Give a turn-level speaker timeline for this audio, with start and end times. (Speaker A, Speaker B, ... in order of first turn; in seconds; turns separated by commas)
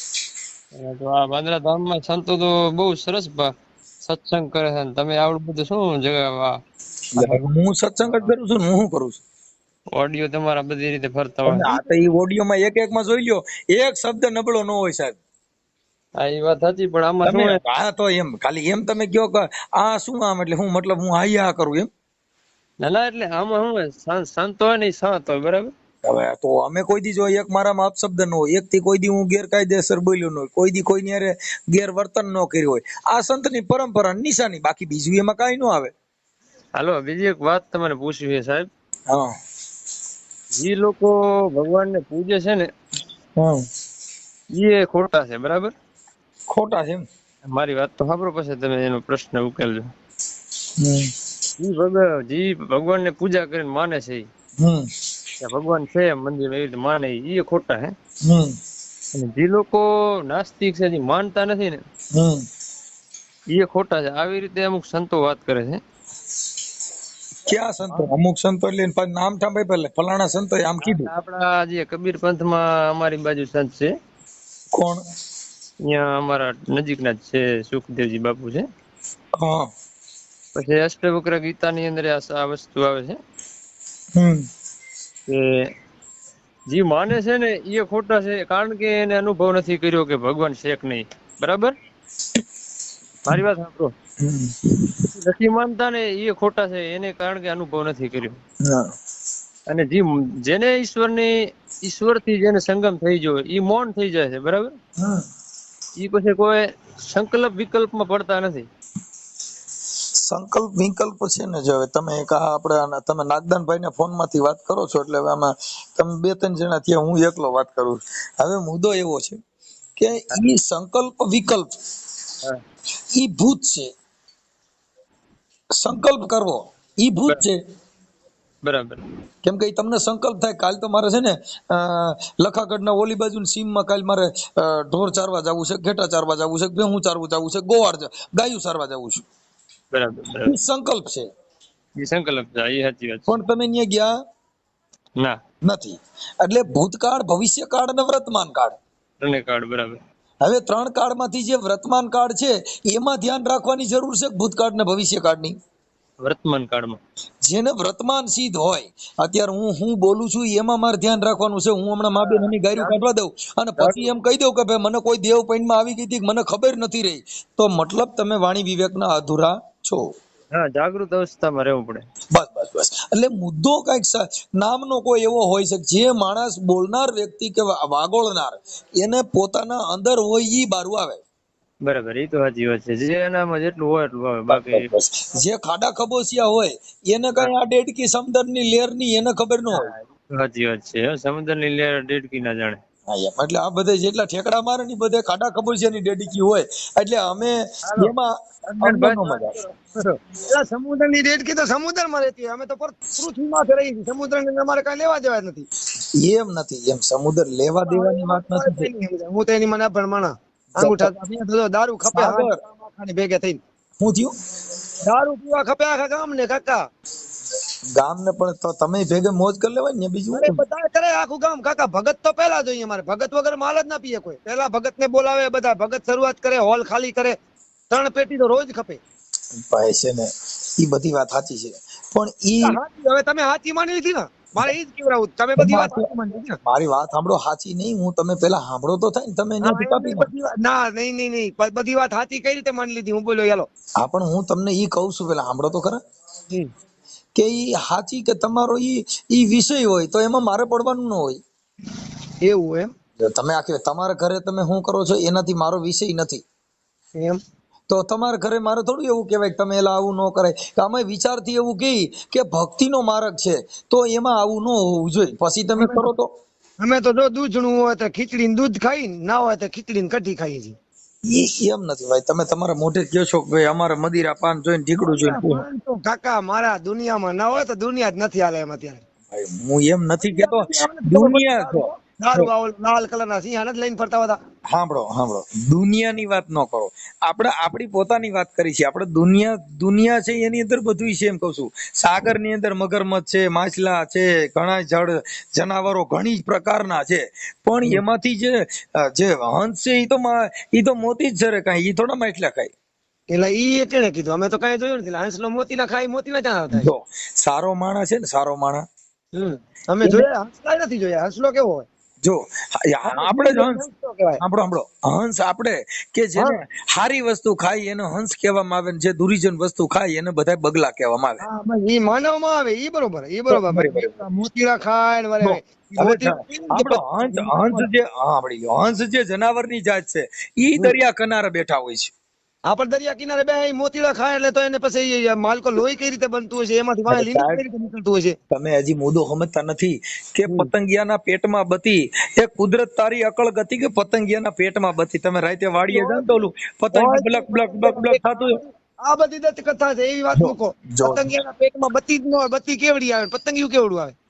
Speaker A: 0.7-6.6, Speaker B: 7.2-9.2, Speaker A: 9.9-11.8, Speaker B: 11.4-15.2, Speaker A: 16.2-17.6, Speaker B: 17.2-21.9, Speaker A: 22.8-25.7, Speaker B: 26.0-35.9, Speaker A: 36.8-38.7, Speaker B: 39.1-39.3, Speaker A: 40.5-42.7, Speaker B: 43.4-43.6, Speaker A: 44.5-45.7, Speaker B: 46.5-47.0, Speaker A: 47.5-49.9, Speaker B: 50.8-51.1, Speaker A: 51.6-54.3, Speaker B: 54.6-54.9, Speaker A: 55.4-57.9, Speaker B: 58.2-58.5, Speaker A: 59.1-61.8, Speaker B: 62.1-62.4, Speaker A: 63.5-65.8, Speaker B: 67.5-71.1, Speaker A: 70.8-73.9, Speaker B: 74.7-75.0, Speaker A: 75.8-78.7, Speaker B: 79.4-79.7, Speaker A: 80.5-83.2, Speaker B: 84.1-84.5, Speaker A: 85.3-85.7, Speaker A: 86.7-91.7, Speaker A: 93.2-93.9, Speaker B: 94.2-95.1, Speaker A: 95.1-98.4, Speaker B: 98.6-98.9, Speaker A: 99.7-104.8, Speaker B: 105.0-105.2, Speaker A: 106.0-108.7, Speaker B: 110.2-119.4, Speaker B: 120.0-121.7, Speaker B: 123.1-123.9, Speaker B: 125.8-127.6, Speaker A: 128.6-129.0, Speaker B: 129.4-139.2, Speaker A: 139.9-140.5, Speaker B: 140.4-141.3, Speaker A: 141.9-143.3, Speaker B: 143.3-144.1, Speaker B: 145.6-148.8, Speaker A: 149.2-150.0, Speaker B: 150.4-155.6, Speaker A: 156.2-157.0, Speaker B: 157.4-170.1, Speaker A: 162.1-163.0, Speaker A: 163.8-164.1, Speaker A: 170.5-172.0, Speaker B: 172.3-181.2, Speaker A: 181.8-184.9, Speaker B: 184.5-189.9, Speaker A: 189.7-192.8, Speaker B: 193.1-199.5, Speaker A: 197.9-198.1, Speaker A: 198.7-199.9, Speaker C: 200.4-205.7, Speaker B: 206.2-208.9, Speaker C: 207.8-213.6, Speaker B: 210.7-211.1, Speaker B: 212.1-212.6, Speaker B: 214.0-214.3, Speaker C: 215.0-216.9, Speaker B: 218.0-220.6, Speaker C: 220.3-227.4, Speaker C: 227.9-229.0, Speaker B: 229.6-232.8, Speaker C: 232.6-236.6, Speaker B: 235.6-236.1, Speaker B: 236.6-240.3, Speaker C: 239.6-243.7, Speaker B: 244.0-246.0, Speaker B: 247.3-251.4, Speaker C: 252.4-252.9, Speaker B: 253.2-256.4, Speaker C: 257.1-257.4, Speaker B: 257.9-266.3, Speaker C: 265.8-266.1, Speaker C: 266.8-270.7, Speaker B: 271.2-275.6, Speaker C: 275.0-279.0, Speaker B: 279.3-282.5, Speaker C: 280.2-284.4, Speaker B: 284.7-302.7, Speaker C: 303.3-306.9, Speaker B: 306.7-308.9, Speaker C: 309.3-311.9, Speaker B: 312.2-313.8, Speaker C: 313.1-314.4, Speaker B: 314.4-321.4, Speaker C: 321.4-327.9, Speaker B: 323.5-324.2, Speaker B: 325.4-332.1, Speaker C: 332.7-338.3, Speaker B: 337.1-337.6, Speaker B: 338.5-348.6, Speaker C: 340.4-340.7, Speaker C: 345.9-346.4, Speaker C: 346.9-354.1, Speaker B: 350.4-351.3